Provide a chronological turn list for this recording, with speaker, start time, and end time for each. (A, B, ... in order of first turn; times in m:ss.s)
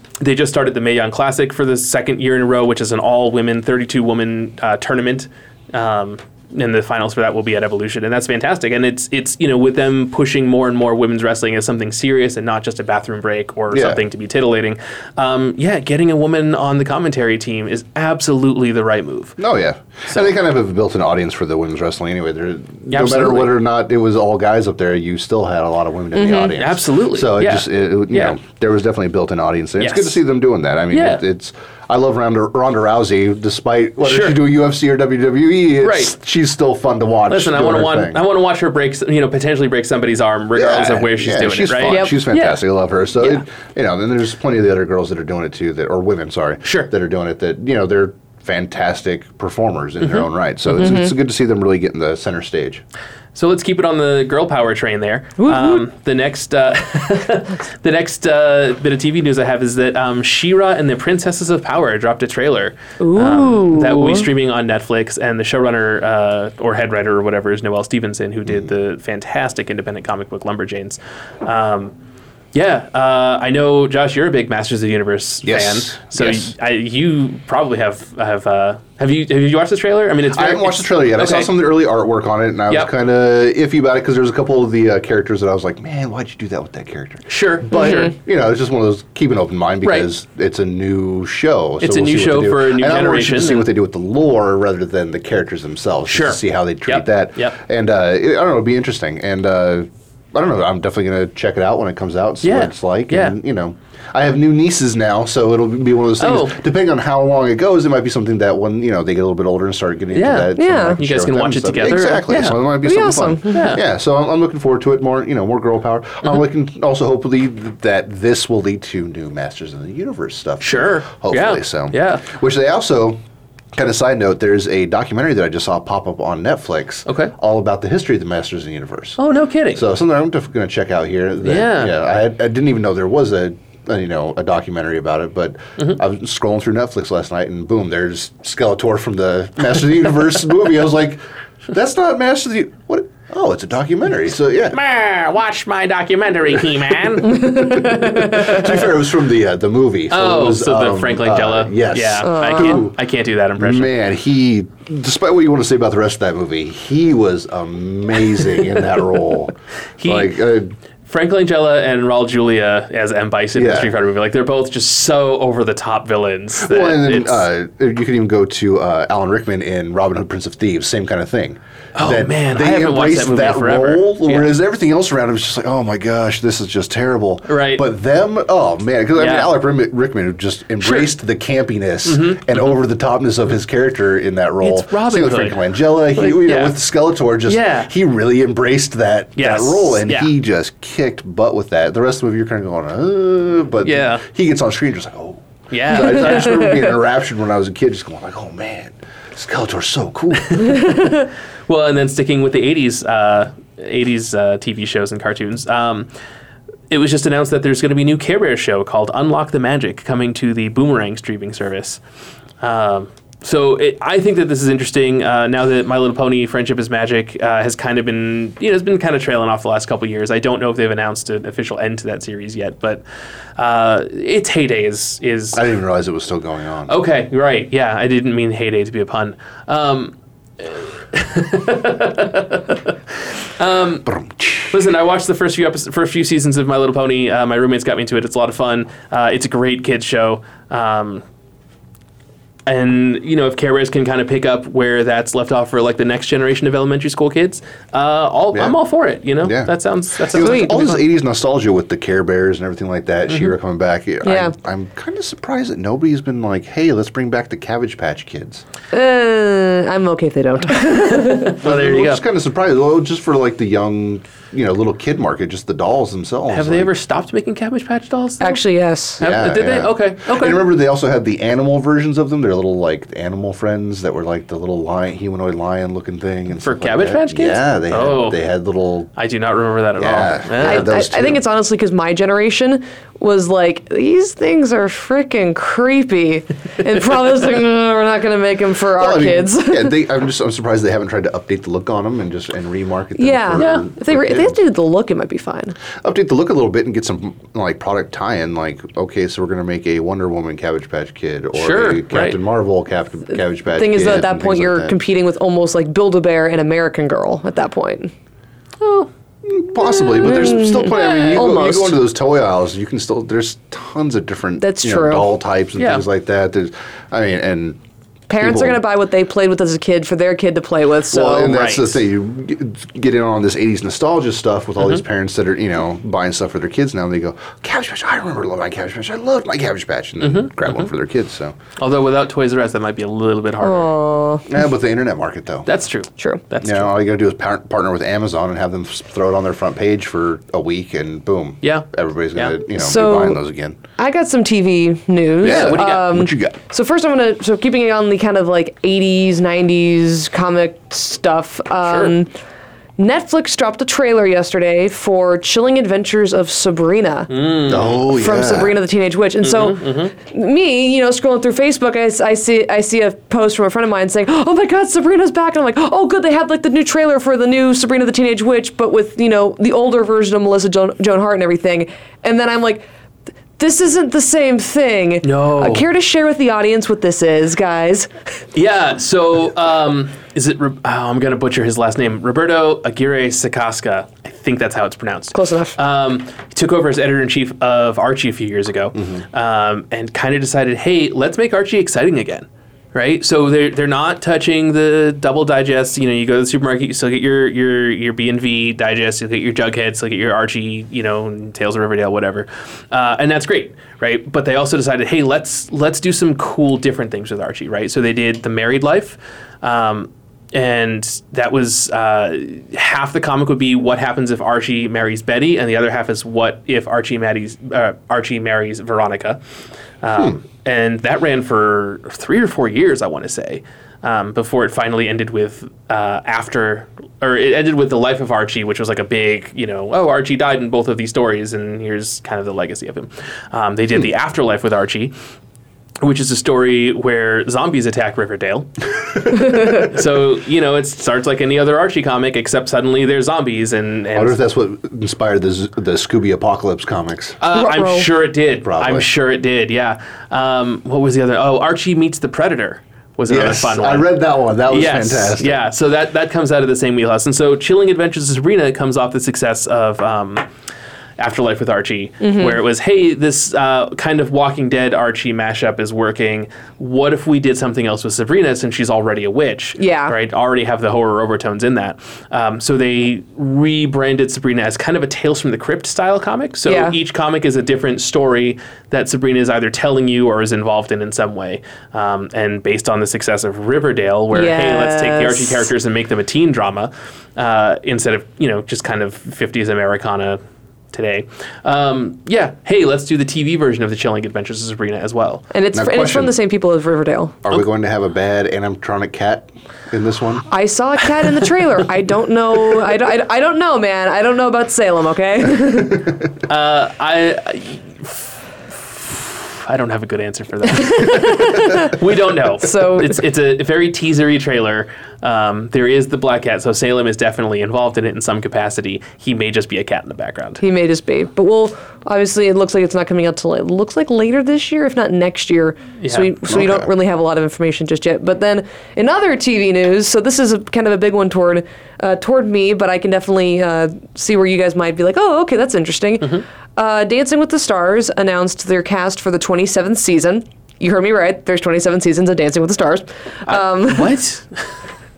0:00.2-0:19.4 A
0:13.7-0:14.0 B
0:19.4-0:38.2 B
0:22.9-0:23.6 A
0:26.1-0:26.6 C
0:26.5-0:28.4 A
0:29.8-0:30.2 A
0:30.9-0:31.2 A
0:34.0-0:34.4 A
0:35.8-0:36.1 A
0:37.3-0:42.6 A
0:40.6-0:52.8 B
0:41.9-0:42.3 C
0:46.6-0:46.9 A
0:50.0-0:50.3 A
0:50.8-0:51.1 C
0:53.4-1:11.9 A
0:55.4-0:55.8 C
1:03.0-1:04.3 C
1:08.4-1:08.7 B
1:12.5-1:21.5 A
1:15.4-1:16.5 B
1:20.3-2:03.2 B
1:27.3-1:28.1 A
1:27.7-1:28.1 C
1:29.8-1:30.1 A
1:31.8-1:33.7 A
1:36.1-1:37.6 A
1:42.4-1:43.4 A
1:46.2-1:46.6 A
1:50.1-1:52.6 A
1:50.6-1:51.0 C
1:52.8-1:53.8 C
1:53.5-1:53.8 A
2:00.6-2:02.3 A
2:03.8-2:09.2 B
2:07.1-2:07.3 A
2:09.2-2:09.8 A
2:09.7-2:24.8 B
2:11.4-2:11.9 A
2:24.7-2:28.5 A
2:27.3-2:28.6 C
2:27.3-2:32.9 B
2:30.1-2:33.9 A
2:32.2-2:32.8 C
2:33.6-2:40.7 B
2:40.0-2:40.4 A
2:41.1-2:47.4 A
2:43.6-2:43.9 B
2:46.6-3:20.9 B
2:52.0-2:54.6 A
2:57.5-2:57.8 A
2:59.2-2:59.5 A
3:00.8-3:01.1 A
3:02.1-3:02.8 A
3:04.6-3:06.8 A
3:07.4-3:07.9 A
3:09.4-3:10.3 A
3:13.8-3:14.2 A
3:15.7-3:16.8 A
3:20.4-3:26.1 A
3:26.9-3:32.0 A
3:32.6-3:43.0 A
3:43.6-3:45.6 A
3:45.5-3:46.9 B
3:46.9-3:54.1 A
3:54.0-3:54.9 B
3:54.7-4:01.2 A
4:02.6-4:11.0 A
4:09.4-4:09.7 B
4:10.3-4:18.6 B
4:10.4-4:10.8 C
4:14.2-4:14.5 C
4:18.9-4:21.6 C
4:21.1-4:22.2 A
4:21.6-4:26.9 B
4:26.5-4:28.6 A
4:28.4-4:29.2 C
4:29.2-4:30.6 A
4:29.2-4:39.1 B
4:36.6-4:38.4 A
4:39.2-4:40.9 A
4:40.0-4:41.4 B
4:40.6-4:50.0 C
4:49.0-4:54.6 B
4:53.2-4:55.7 C
4:53.6-4:53.9 A
4:56.0-5:05.0 B
5:01.6-5:02.4 A
5:03.7-5:08.1 C
5:09.4-5:17.8 B
5:10.0-5:12.0 C
5:10.9-5:11.4 A
5:14.6-5:15.3 C
5:15.8-5:16.0 A
5:18.3-5:21.6 C
5:18.4-5:18.8 B
5:21.1-5:31.6 B
5:21.3-5:22.0 A
5:30.2-5:30.9 A
5:31.8-5:33.9 A
5:33.6-5:34.5 C
5:34.5-5:35.7 B
5:35.7-5:36.9 A
5:36.6-5:43.8 B
5:41.6-5:42.6 A
5:42.7-5:43.4 C
5:44.0-5:52.3 C
5:45.4-5:46.2 A
5:45.4-5:46.6 B
5:51.9-5:52.1 A
5:53.0-5:57.3 C
5:57.3-5:58.0 A
5:57.7-5:58.8 B
5:58.0-6:12.9 C
5:59.4-6:00.1 A
6:13.6-6:18.1 C
6:15.2-6:15.9 A
6:18.5-6:59.4 A
6:25.3-6:25.8 C
7:00.0-7:15.1 A
7:16.0-7:24.4 A
7:24.1-7:27.4 B
7:27.4-7:34.1 A
7:27.5-7:28.1 C
7:28.6-7:29.1 B
7:33.3-7:35.6 B
7:34.7-7:40.4 A
7:41.2-8:10.4 A
7:42.2-7:42.6 C
7:49.8-7:50.1 C
7:56.7-7:57.0 C
8:04.3-8:05.7 C
8:10.9-8:15.4 A
8:15.5-8:17.4 C
8:15.7-8:16.4 B
8:17.4-8:20.5 B
8:20.5-8:26.1 C
8:26.5-8:40.6 A
8:30.7-8:32.0 C
8:32.6-8:33.2 C
8:40.6-9:04.2 C
8:46.0-8:46.3 A
8:46.5-8:46.9 B
9:03.5-9:04.6 A